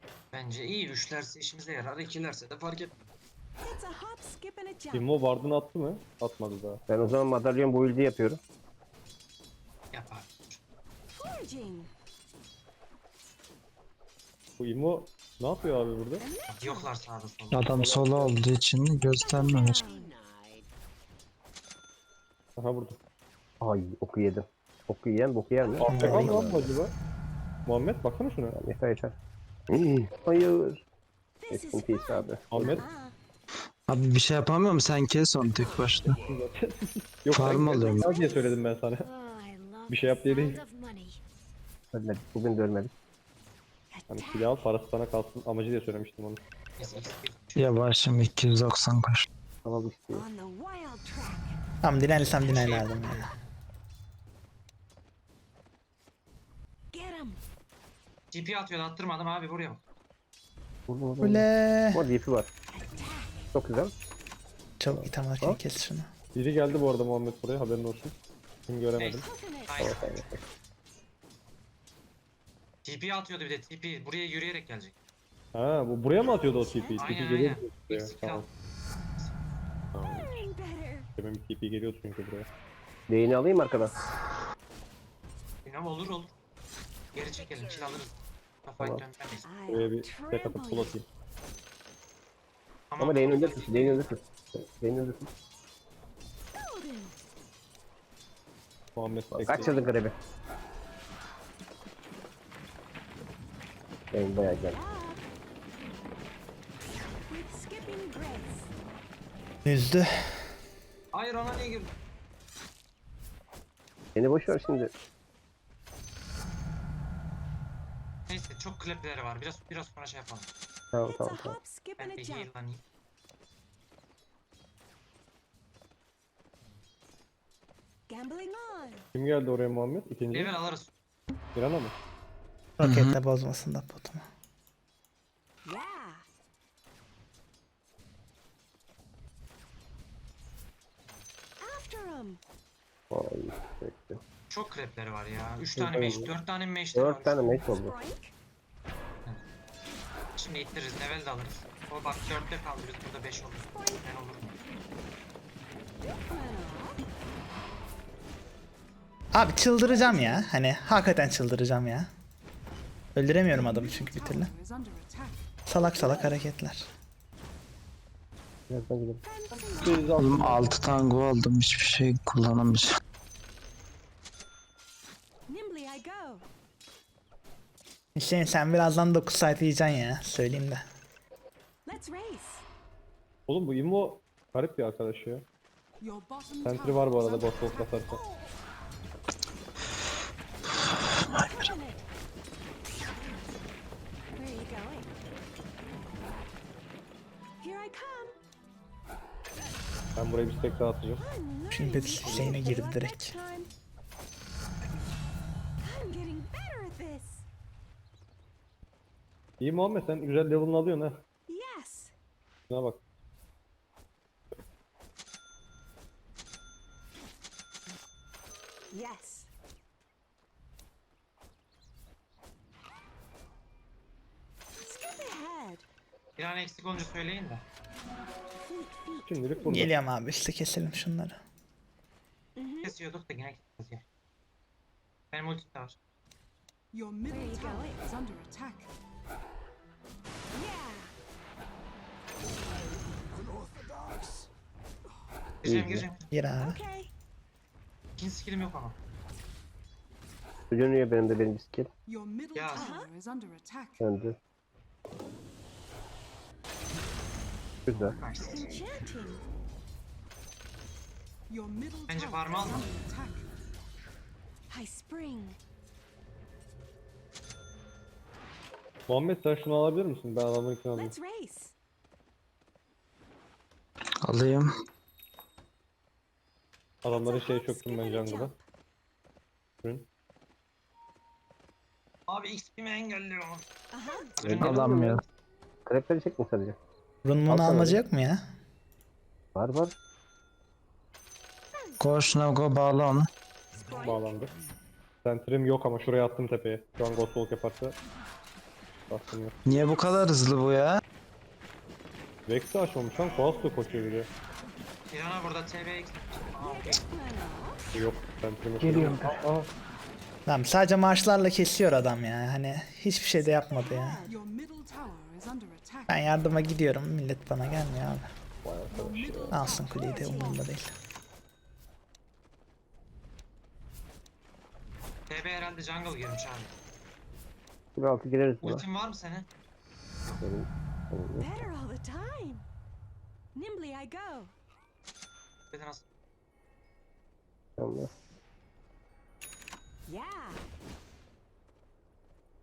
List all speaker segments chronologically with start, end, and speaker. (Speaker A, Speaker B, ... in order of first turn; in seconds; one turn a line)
Speaker A: 0.3-2.9
Speaker B: 3.6-5.1
Speaker C: 4.9-6.8
Speaker D: 6.9-8.4
Speaker A: 9.9-10.6
Speaker B: 11.1-11.9
Speaker C: 14.6-16.2
Speaker B: 16.2-16.9
Speaker A: 16.5-17.8
Speaker E: 17.5-19.8
Speaker C: 17.8-18.4
Speaker B: 19.2-20.1
Speaker C: 22.6-23.0
Speaker D: 23.6-26.7
Speaker C: 25.8-26.9
Speaker F: 25.8-26.4
Speaker C: 27.7-28.6
Speaker D: 28.6-29.1
Speaker D: 29.7-30.8
Speaker B: 31.4-33.2
Speaker D: 31.5-32.8
Speaker C: 32.5-32.8
Speaker E: 33.9-36.2
Speaker C: 36.3-39.1
Speaker E: 37.3-38.2
Speaker B: 37.8-41.2
Speaker C: 39.9-40.6
Speaker D: 41.9-42.9
Speaker B: 43.9-44.7
Speaker C: 44.1-46.4
Speaker A: 46.8-47.8
Speaker E: 47.5-49.2
Speaker D: 49.6-50.2
Speaker B: 50.1-51.6
Speaker F: 51.8-53.3
Speaker A: 52.4-53.3
Speaker B: 56.9-57.4
Speaker A: 58.3-59.8
Speaker D: 60.9-62.5
Speaker F: 61.2-62.0
Speaker B: 62.7-63.5
Speaker D: 63.5-63.9
Speaker F: 64.8-66.1
Speaker D: 64.9-65.6
Speaker C: 66.3-68.2
Speaker C: 68.7-69.2
Speaker A: 69.0-70.3
Speaker B: 69.2-69.9
Speaker D: 69.8-70.4
Speaker A: 72.8-74.9
Speaker C: 75.5-78.5
Speaker B: 76.3-77.2
Speaker A: 77.0-78.5
Speaker C: 79.9-80.4
Speaker B: 80.1-81.1
Speaker C: 81.2-82.5
Speaker D: 83.1-84.0
Speaker A: 85.7-86.3
Speaker A: 87.1-89.5
Speaker B: 89.4-91.0
Speaker C: 89.7-91.0
Speaker A: 92.9-94.0
Speaker D: 93.0-95.3
Speaker B: 96.5-97.2
Speaker C: 99.0-99.9
Speaker D: 99.3-100.2
Speaker B: 99.5-99.9
Speaker D: 104.1-104.8
Speaker B: 104.7-105.2
Speaker B: 107.3-108.7
Speaker F: 109.7-110.3
Speaker A: 111.1-111.9
Speaker D: 114.2-114.9
Speaker A: 118.3-120.5
Speaker D: 120.9-121.6
Speaker B: 121.0-122.5
Speaker A: 122.0-122.8
Speaker B: 128.1-129.1
Speaker C: 129.1-130.6
Speaker A: 130.3-130.9
Speaker C: 131.5-131.9
Speaker F: 132.8-134.2
Speaker E: 132.8-133.2
Speaker B: 135.7-136.2
Speaker B: 141.6-142.4
Speaker D: 143.1-144.2
Speaker A: 144.5-147.7
Speaker D: 145.8-146.3
Speaker D: 146.9-147.9
Speaker B: 147.7-148.3
Speaker A: 150.4-154.6
Speaker B: 153.6-154.0
Speaker B: 156.0-157.1
Speaker F: 159.3-162.1
Speaker B: 160.1-160.5
Speaker F: 163.2-164.5
Speaker G: 163.5-165.4
Speaker F: 165.7-166.9
Speaker B: 165.8-166.3
Speaker D: 168.7-169.2
Speaker B: 169.2-170.0
Speaker C: 169.5-171.0
Speaker E: 170.2-172.9
Speaker B: 175.5-176.5
Speaker F: 178.2-180.8
Speaker B: 181.9-182.7
Speaker C: 183.5-185.5
Speaker G: 186.0-188.2
Speaker C: 186.7-188.2
Speaker E: 191.3-191.7
Speaker B: 191.4-192.1
Speaker B: 194.4-195.1
Speaker B: 197.6-198.4
Speaker C: 200.2-201.2
Speaker B: 201.2-203.7
Speaker F: 201.7-203.3
Speaker A: 202.2-202.5
Speaker B: 205.8-207.4
Speaker C: 209.6-211.2
Speaker B: 211.5-212.1
Speaker C: 212.7-213.0
Speaker B: 218.9-219.5
Speaker B: 224.8-225.8
Speaker A: 226.4-227.7
Speaker B: 228.6-229.3
Speaker C: 229.2-229.9
Speaker F: 229.7-231.4
Speaker B: 232.6-232.9
Speaker A: 232.8-234.0
Speaker A: 235.3-236.0
Speaker G: 236.9-238.9
Speaker B: 237.3-238.0
Speaker B: 240.5-241.1
Speaker A: 245.6-246.3
Speaker D: 245.7-246.1
Speaker F: 246.3-246.8
Speaker B: 246.6-247.1
Speaker A: 248.2-249.0
Speaker D: 250.7-251.9
Speaker G: 252.1-254.0
Speaker A: 252.5-252.9
Speaker B: 252.8-253.1
Speaker D: 254.0-254.4
Speaker D: 257.9-258.1
Speaker A: 258.2-258.7
Speaker B: 258.4-259.4
Speaker G: 261.5-263.4
Speaker A: 262.1-262.9
Speaker B: 264.7-265.6
Speaker C: 269.1-271.1
Speaker B: 270.9-271.7
Speaker E: 274.2-274.7
Speaker C: 277.0-278.5
Speaker B: 277.1-278.6
Speaker A: 282.3-283.6
Speaker B: 283.9-284.3
Speaker A: 284.3-285.1
Speaker D: 284.4-285.2
Speaker E: 284.6-285.2
Speaker D: 285.9-286.8
Speaker F: 287.2-288.4
Speaker D: 287.5-288.0
Speaker D: 289.5-289.9
Speaker B: 291.7-292.1
Speaker E: 292.0-293.3
Speaker B: 293.8-294.4
Speaker C: 293.9-294.5
Speaker C: 295.2-297.9
Speaker C: 299.1-299.6
Speaker E: 299.6-301.0
Speaker C: 302.5-304.3
Speaker A: 305.1-307.0
Speaker B: 306.6-307.8
Speaker C: 307.9-309.7
Speaker D: 308.8-309.4
Speaker F: 310.4-314.2
Speaker B: 313.4-314.4
Speaker G: 314.3-316.1
Speaker F: 316.1-318.3
Speaker C: 318.6-319.8
Speaker G: 318.9-320.6
Speaker F: 319.5-320.9
Speaker A: 325.3-326.7
Speaker D: 327.9-328.8
Speaker A: 328.6-329.5
Speaker D: 330.4-331.5
Speaker B: 331.4-332.6
Speaker B: 333.5-334.5
Speaker A: 335.7-336.0
Speaker D: 337.8-338.1
Speaker B: 340.1-340.6